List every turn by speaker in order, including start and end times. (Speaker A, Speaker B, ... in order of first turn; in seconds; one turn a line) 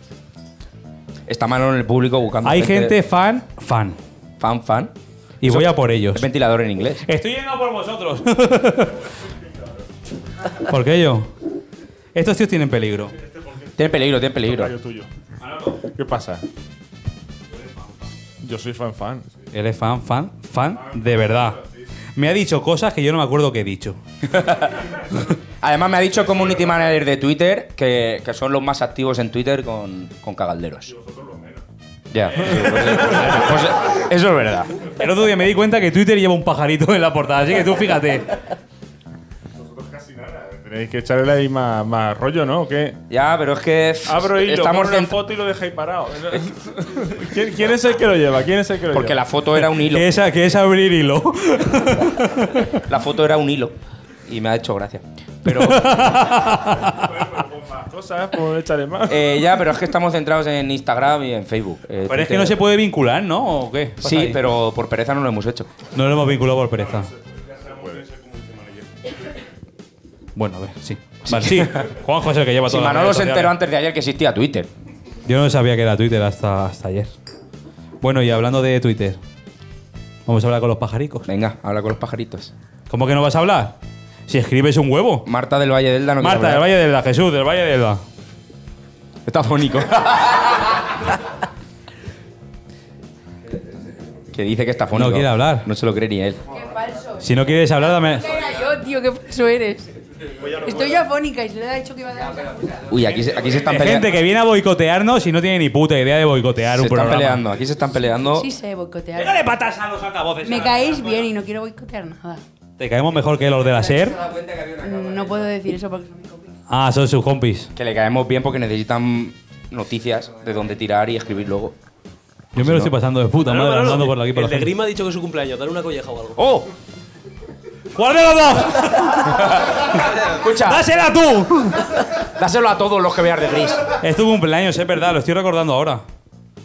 Speaker A: 1.3-3.0
Speaker B: 2.4-4.0
Speaker A: 4.4-4.9
Speaker B: 5.4-6.3
Speaker A: 5.4-7.0
Speaker B: 7.0-9.0
Speaker B: 10.7-11.3
Speaker B: 12.2-13.1
Speaker C: 13.2-13.8
Speaker A: 13.8-14.7
Speaker C: 14.4-15.1
Speaker C: 15.8-16.4
Speaker C: 18.4-19.4
Speaker B: 19.5-21.6
Speaker C: 20.7-21.7
Speaker B: 22.2-24.0
Speaker A: 24.3-24.9
Speaker A: 25.6-30.9
Speaker C: 30.9-31.6
Speaker A: 32.1-34.8
Speaker C: 32.5-33.6
Speaker B: 35.0-38.3
Speaker C: 39.5-43.0
Speaker A: 43.1-45.2
Speaker C: 44.1-49.2
Speaker A: 48.9-50.1
Speaker B: 49.8-52.6
Speaker A: 52.8-53.8
Speaker A: 54.3-56.3
Speaker B: 55.5-57.0
Speaker C: 56.9-59.2
Speaker A: 59.1-62.6
Speaker B: 62.1-64.4
Speaker A: 64.0-65.7
Speaker B: 65.9-67.1
Speaker C: 67.0-68.8
Speaker B: 70.4-73.5
Speaker A: 71.2-72.0
Speaker A: 72.7-74.7
Speaker B: 75.3-77.1
Speaker B: 78.0-79.2
Speaker B: 80.3-81.3
Speaker A: 81.3-82.5
Speaker B: 82.9-83.8
Speaker B: 84.3-85.3
Speaker A: 85.3-86.7
Speaker B: 86.2-88.0
Speaker A: 89.3-90.8
Speaker A: 94.3-96.4
Speaker B: 94.9-95.7
Speaker D: 96.5-97.3
Speaker B: 97.2-98.3
Speaker D: 98.0-99.9
Speaker D: 100.5-102.9
Speaker A: 102.9-104.2
Speaker B: 103.6-107.4
Speaker A: 106.7-108.5
Speaker D: 108.4-109.4
Speaker B: 109.2-111.2
Speaker D: 110.4-112.4
Speaker B: 112.8-114.2
Speaker D: 114.6-116.5
Speaker B: 116.7-117.7
Speaker A: 117.8-121.8
Speaker B: 122.5-124.7
Speaker A: 122.6-122.9
Speaker E: 123.4-126.4
Speaker A: 126.3-126.7
Speaker B: 127.9-129.4
Speaker A: 129.2-130.9
Speaker B: 130.6-131.9
Speaker A: 132.2-133.9
Speaker B: 134.0-136.0